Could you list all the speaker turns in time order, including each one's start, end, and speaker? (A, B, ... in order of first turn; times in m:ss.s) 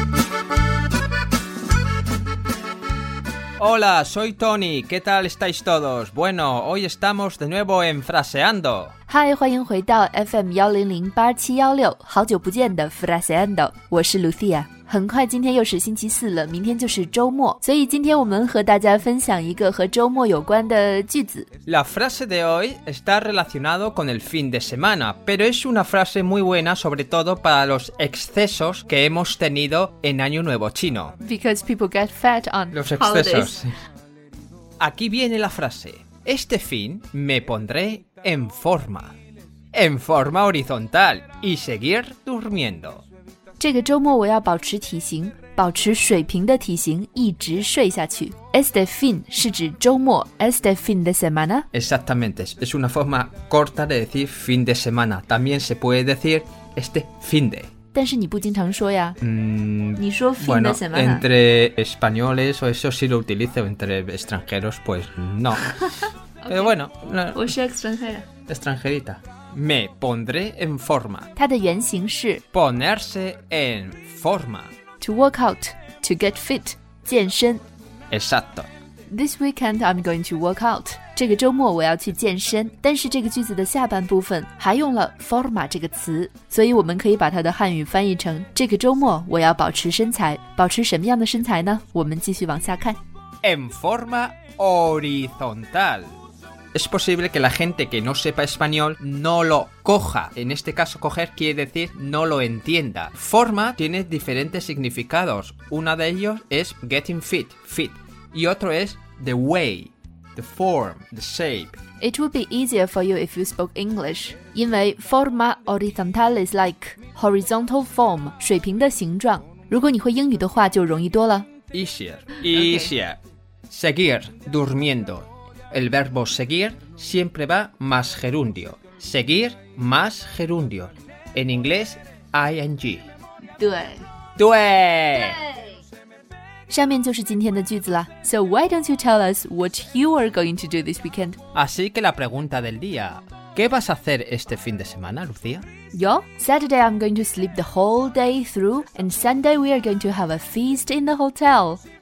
0:03.6-0:08.9 A
0:09.1-0:21.5 B
0:21.7-0:31.2 A
0:31.2-0:33.6 B
0:32.7-0:33.7 A
0:34.8-0:39.1 A
0:39.7-0:43.0 A
0:43.6-0:51.7 B
0:51.7-0:57.7 A
0:57.9-0:59.2 B
0:59.2-1:07.5 A
1:00.0-1:01.2 B
1:05.9-1:06.7 B
1:07.3-1:08.3 B
1:08.5-1:11.3 A
1:11.4-1:12.4 B
1:12.5-1:14.7 A
1:15.0-1:17.6 B
1:18.1-1:18.7 A
1:19.1-1:33.0 B
1:33.4-1:36.1 A
1:36.8-1:51.8 A
1:52.0-2:01.5 B
2:01.7-2:13.1 A
2:02.5-2:02.9 B
2:13.6-2:14.0 B
2:14.4-2:15.4 A
2:16.7-2:21.4 B
2:21.5-2:25.6 A
2:25.9-2:31.8 B